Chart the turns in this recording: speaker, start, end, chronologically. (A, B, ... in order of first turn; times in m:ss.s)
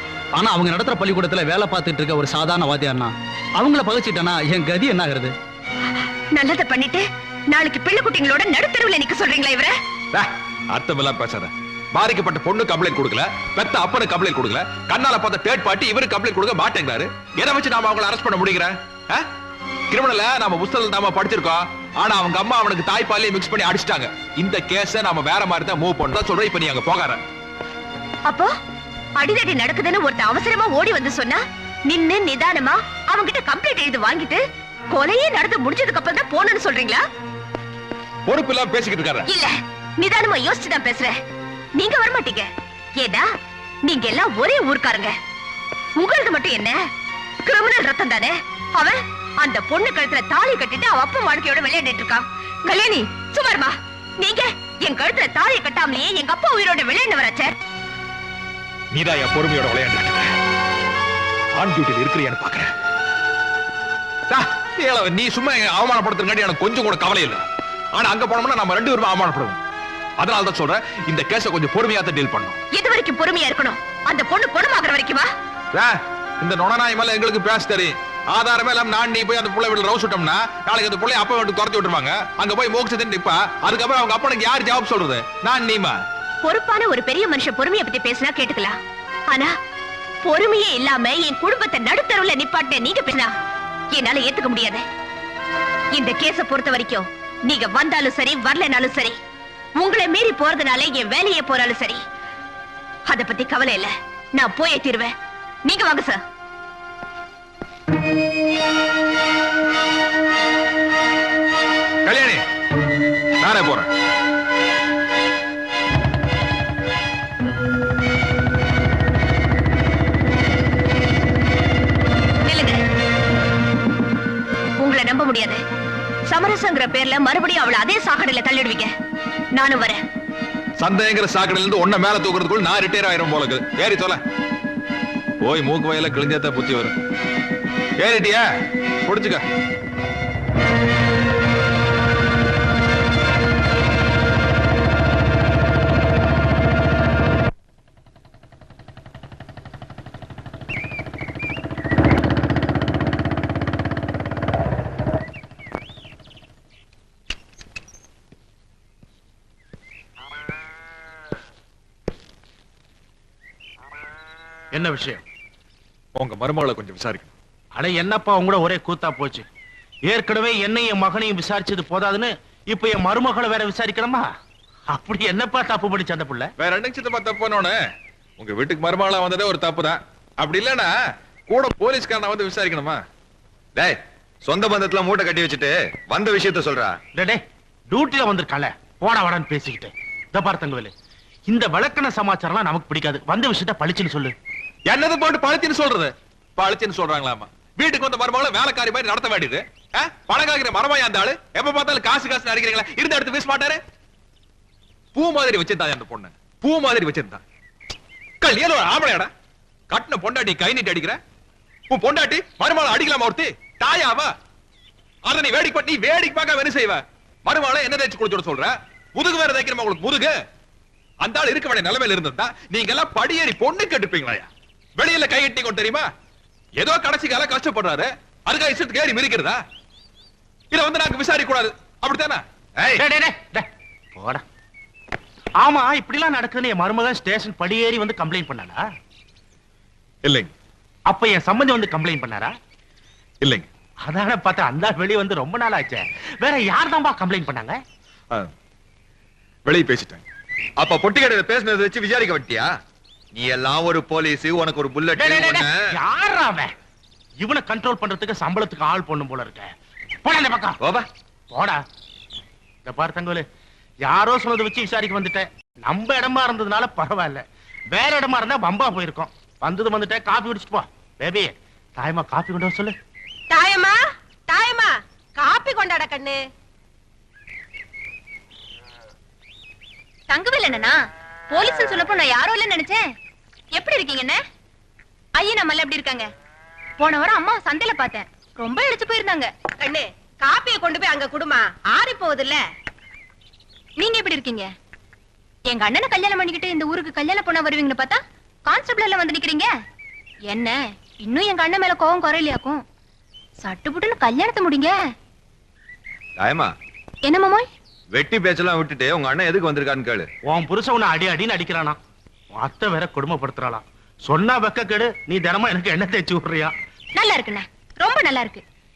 0:00.4-0:05.3 A
0:06.3-0:09.7 B
0:10.1-0:19.3 C
0:19.9-0:27.2 C
0:28.3-0:28.5 B
0:29.2-0:34.4 B
0:34.9-0:37.0 B
0:38.3-0:39.3 C
0:39.3-0:41.1 B
0:41.8-0:43.3 B
0:43.8-0:45.1 B
0:46.0-0:46.8 B
0:47.4-0:57.6 B
0:58.9-1:00.4 C
1:01.6-1:02.7 C
1:04.3-1:07.4 C
1:07.9-1:09.6 C
1:10.2-1:12.6 C
1:12.7-1:15.3 B
1:15.7-1:26.0 C
1:26.4-1:28.8 B
1:30.2-1:33.3 B
1:33.9-1:34.8 B
1:35.9-1:39.2 B
1:39.8-1:42.0 B
1:43.1-1:45.1 B
1:45.6-1:46.2 B
1:52.0-1:52.4 C
1:53.4-1:53.9 C
2:02.4-2:02.8 B
2:04.8-2:05.6 B
2:06.3-2:08.9 B
2:09.6-2:10.0 B
2:10.8-2:14.2 C
2:15.4-2:17.0 C
2:18.0-2:18.4 C
2:19.1-2:19.4 C
2:44.8-2:45.2 D
2:46.2-2:47.3 C
2:47.8-2:49.4 D
2:50.1-2:54.2 D
2:55.0-2:56.4 D
2:56.6-2:57.8 C
2:58.4-3:00.9 C
3:01.5-3:03.0 C
3:03.8-3:07.0 E
3:07.9-3:10.9 D
3:11.5-3:14.3 D
3:14.9-3:23.8 C
3:25.2-3:27.4 C
3:28.4-3:29.3 C
3:29.9-3:31.2 C
3:31.9-3:34.3 C
3:35.2-3:40.3 C
3:41.2-3:46.1 C
3:46.8-3:49.6 C
3:50.7-3:53.0 C
3:53.0-3:53.6 D
3:55.6-3:58.8 D
4:00.2-4:00.5 C
4:01.1-4:02.5 D
4:03.4-4:03.7 C
4:04.1-4:07.7 D
4:09.6-4:10.2 C
4:10.8-4:12.7 E
4:13.3-4:15.8 E
4:15.2-4:16.7 D
4:17.4-4:19.7 D
4:20.3-4:20.7 D
4:20.8-4:21.1 E
4:22.9-4:23.4 D
4:24.1-4:27.4 D
4:27.9-4:32.9 D
4:33.5-4:34.0 F
4:34.5-4:34.9 F
4:35.4-4:36.4 F
4:40.3-4:41.0 G
4:41.5-4:43.0 G
4:43.8-4:44.4 G
4:45.4-4:46.3 G
4:47.0-4:49.5 G
4:49.8-4:52.6 F
4:54.0-4:54.7 G
4:55.7-4:59.7 G
5:00.5-5:02.8 G
5:03.6-5:05.0 G
5:06.4-5:06.7 E
5:07.2-5:07.7 G
5:08.1-5:10.3 E
5:10.5-5:12.0 D
5:12.6-5:16.7 D
5:17.2-5:18.6 G